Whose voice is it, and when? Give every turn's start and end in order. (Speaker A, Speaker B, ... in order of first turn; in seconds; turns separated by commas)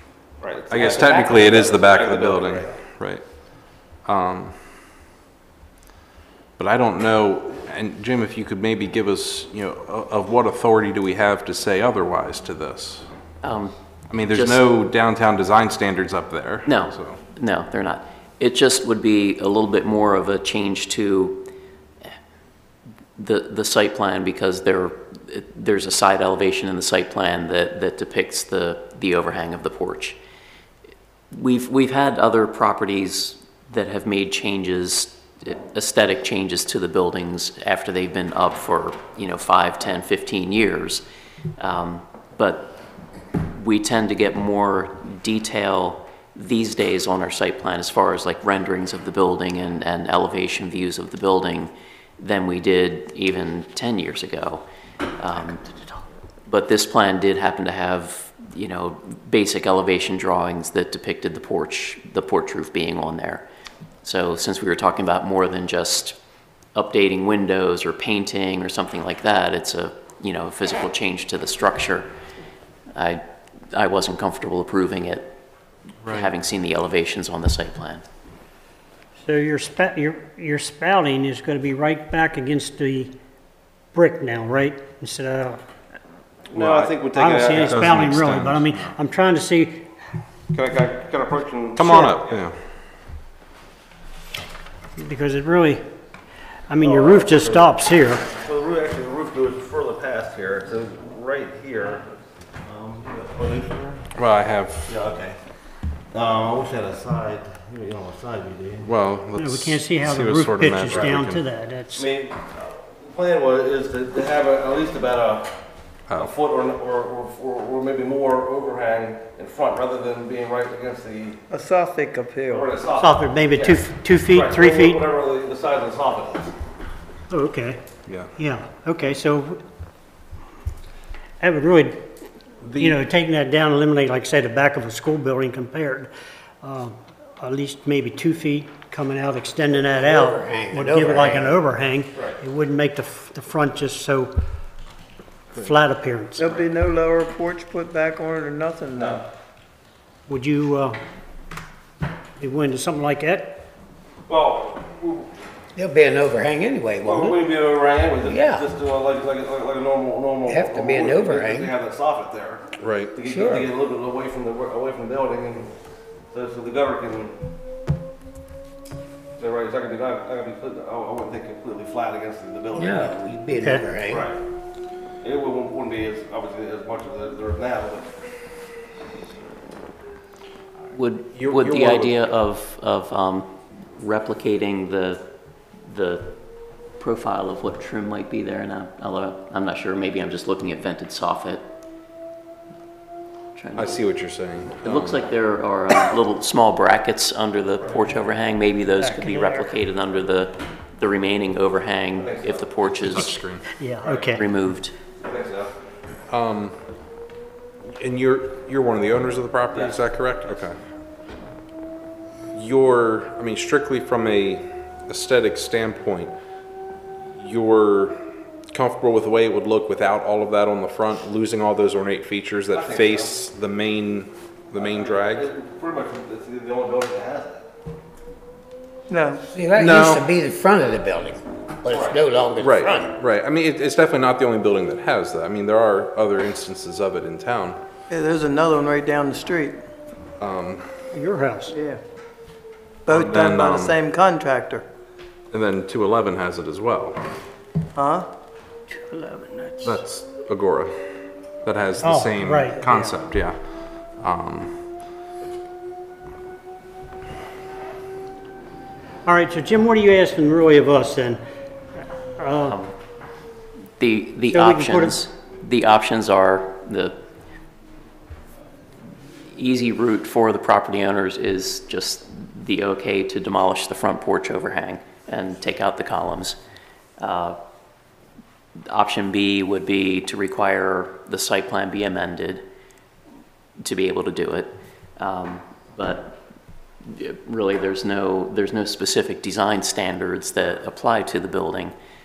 Speaker A: 0.4-2.7, Speaker B: 0.7-3.2, Speaker C: 0.7-1.8, Speaker B: 4.0-4.7, Speaker B: 6.6-13.1, Speaker D: 13.4-13.7, Speaker B: 14.1-17.2, Speaker D: 14.3-14.7, Speaker D: 16.6-21.5, Speaker D: 23.2-30.2, Speaker D: 31.3-41.0, Speaker D: 41.6-42.8, Speaker D: 43.5-54.6, Speaker D: 55.2-55.6, Speaker D: 56.5-63.5, Speaker D: 64.0-66.2, Speaker D: 66.7-72.1, Speaker D: 72.9-73.2, Speaker D: 73.7-75.3, Speaker B: 76.0-76.3, Speaker D: 76.0-78.0, Speaker E: 79.2-83.1, Speaker E: 83.9-85.6, Speaker A: 86.5-88.2, Speaker B: 86.5-86.9, Speaker E: 87.1-89.8, Speaker B: 87.5-88.9, Speaker A: 90.5-92.3, Speaker B: 91.8-92.5, Speaker E: 95.0-95.8, Speaker E: 96.7-98.2, Speaker A: 96.8-97.7, Speaker A: 98.3-102.0, Speaker A: 102.6-104.1, Speaker B: 104.1-104.9, Speaker A: 104.9-105.4, Speaker A: 106.1-108.9, Speaker B: 108.8-111.4, Speaker E: 109.4-112.1, Speaker A: 111.9-115.5, Speaker A: 116.1-121.4, Speaker F: 121.5-122.7, Speaker A: 122.5-126.5, Speaker E: 123.0-125.0, Speaker E: 127.3-127.8, Speaker B: 128.1-128.3, Speaker E: 128.4-129.6, Speaker E: 131.4-132.0, Speaker B: 132.6-133.0, Speaker E: 132.8-136.1, Speaker E: 136.6-144.3, Speaker C: 139.8-141.6, Speaker A: 142.1-142.4, Speaker E: 145.5-146.5, Speaker F: 146.4-149.2, Speaker A: 148.9-149.2, Speaker E: 150.3-150.9, Speaker E: 152.4-153.6, Speaker A: 154.3-155.3, Speaker C: 155.8-157.4, Speaker A: 157.0-165.7, Speaker C: 158.2-158.6, Speaker C: 160.5-161.7, Speaker B: 162.8-163.1, Speaker C: 163.2-163.7, Speaker A: 166.3-167.3, Speaker A: 169.4-173.3, Speaker C: 172.7-174.3, Speaker E: 173.6-173.9, Speaker A: 174.0-174.4, Speaker A: 175.2-178.1, Speaker D: 180.9-185.2, Speaker B: 181.3-182.2, Speaker D: 185.8-186.3, Speaker D: 187.0-191.6, Speaker D: 193.5-194.0, Speaker B: 193.8-195.2, Speaker D: 194.8-203.4, Speaker E: 198.8-199.8, Speaker A: 202.1-202.8, Speaker B: 203.0-203.7, Speaker E: 203.7-204.4, Speaker A: 204.0-204.4, Speaker D: 204.3-204.9, Speaker A: 205.2-205.7, Speaker B: 206.3-206.8, Speaker B: 207.9-210.8, Speaker B: 212.5-216.3, Speaker B: 217.3-218.2, Speaker B: 218.7-225.5, Speaker A: 222.7-223.3, Speaker A: 224.7-227.7, Speaker F: 229.1-229.4, Speaker C: 229.5-233.2, Speaker B: 229.7-230.2, Speaker A: 231.8-232.2, Speaker B: 232.6-237.8, Speaker F: 238.1-239.8, Speaker B: 240.4-240.9, Speaker E: 241.1-241.7, Speaker F: 241.7-242.0, Speaker F: 243.1-244.8, Speaker B: 243.1-244.0, Speaker B: 245.5-247.2, Speaker F: 248.0-248.2, Speaker B: 249.8-254.9, Speaker E: 252.0-253.1, Speaker E: 259.2-261.4, Speaker E: 262.4-262.8, Speaker D: 262.6-262.9, Speaker D: 264.0-267.2, Speaker E: 264.4-265.2, Speaker D: 269.5-276.6, Speaker D: 277.2-277.6, Speaker D: 278.9-282.6, Speaker D: 283.8-286.4, Speaker D: 287.0-291.9